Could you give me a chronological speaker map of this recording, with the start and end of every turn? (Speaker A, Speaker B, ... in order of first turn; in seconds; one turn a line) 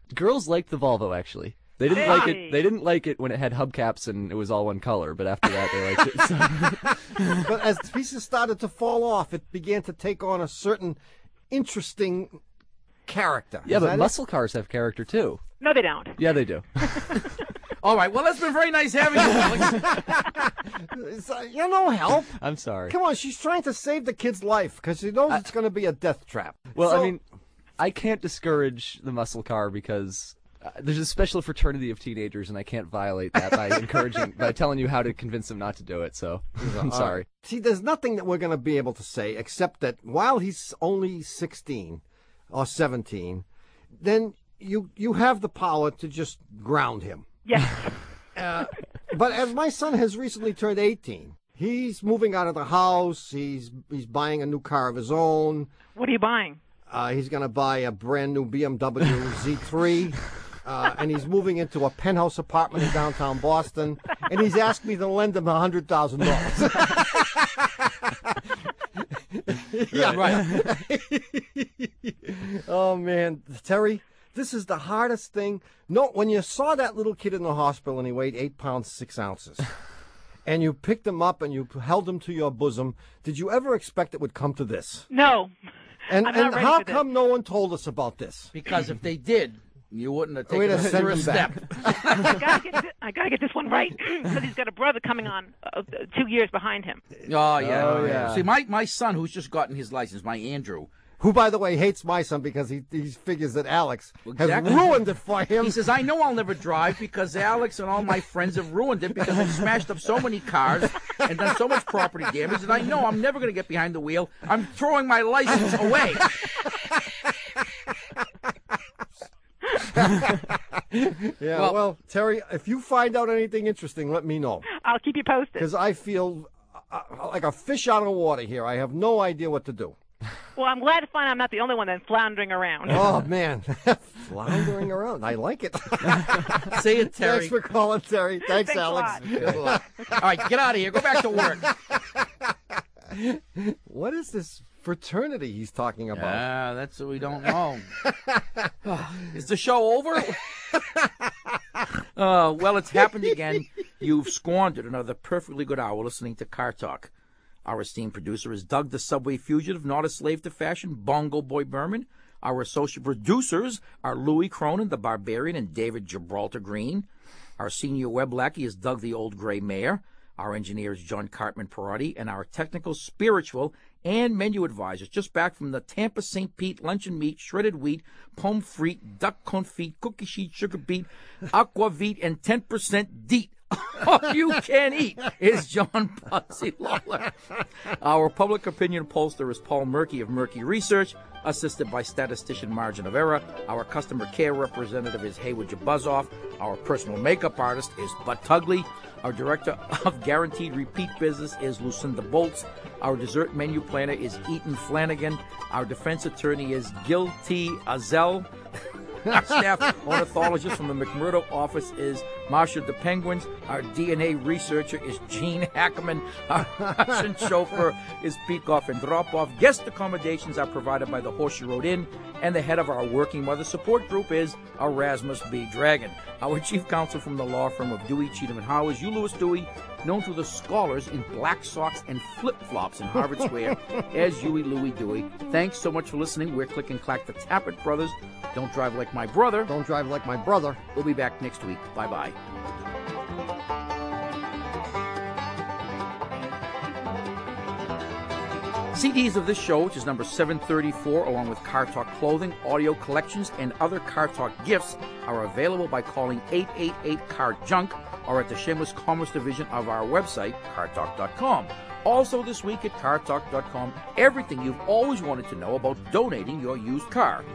Speaker A: 0.1-7.5
Speaker B: 1.9-2.7
Speaker C: 7.4-11.0
Speaker C: 11.5-12.4
Speaker C: 13.1-14.1
Speaker A: 13.7-15.4
Speaker B: 15.6-16.2
Speaker A: 16.2-16.9
Speaker D: 17.8-19.9
Speaker C: 19.8-22.3
Speaker A: 22.3-22.9
Speaker C: 22.9-27.1
Speaker A: 26.7-27.2
Speaker A: 27.8-37.2
Speaker C: 36.6-43.5
Speaker C: 44.0-47.3
Speaker B: 47.4-48.0
Speaker C: 48.4-55.7
Speaker B: 55.9-56.6
Speaker C: 56.9-68.4
Speaker C: 69.0-79.6
Speaker D: 70.0-70.6
Speaker C: 80.4-85.1
Speaker B: 85.1-85.5
Speaker C: 86.1-88.5
Speaker B: 86.1-87.0
Speaker D: 88.5-92.4
Speaker C: 90.5-92.3
Speaker B: 92.2-97.0
Speaker D: 97.2-100.9
Speaker A: 97.6-98.5
Speaker C: 97.7-98.3
Speaker C: 101.2-105.9
Speaker D: 104.2-104.8
Speaker D: 105.6-116.3
Speaker C: 119.8-124.7
Speaker B: 124.7-125.7
Speaker C: 125.6-130.0
Speaker B: 130.6-133.1
Speaker C: 132.9-140.2
Speaker D: 136.7-137.5
Speaker B: 138.4-139.2
Speaker D: 139.3-141.7
Speaker C: 140.9-142.2
Speaker C: 143.1-146.4
Speaker D: 146.1-147.9
Speaker C: 148.0-148.7
Speaker D: 148.8-150.4
Speaker C: 150.7-151.1
Speaker D: 152.2-157.1
Speaker D: 157.6-167.1
Speaker D: 167.6-187.3
Speaker D: 187.8-208.5
Speaker C: 209.3-209.5
Speaker D: 209.3-239.7
Speaker C: 216.8-217.2
Speaker C: 239.7-240.8
Speaker D: 240.9-242.4
Speaker D: 248.9-267.5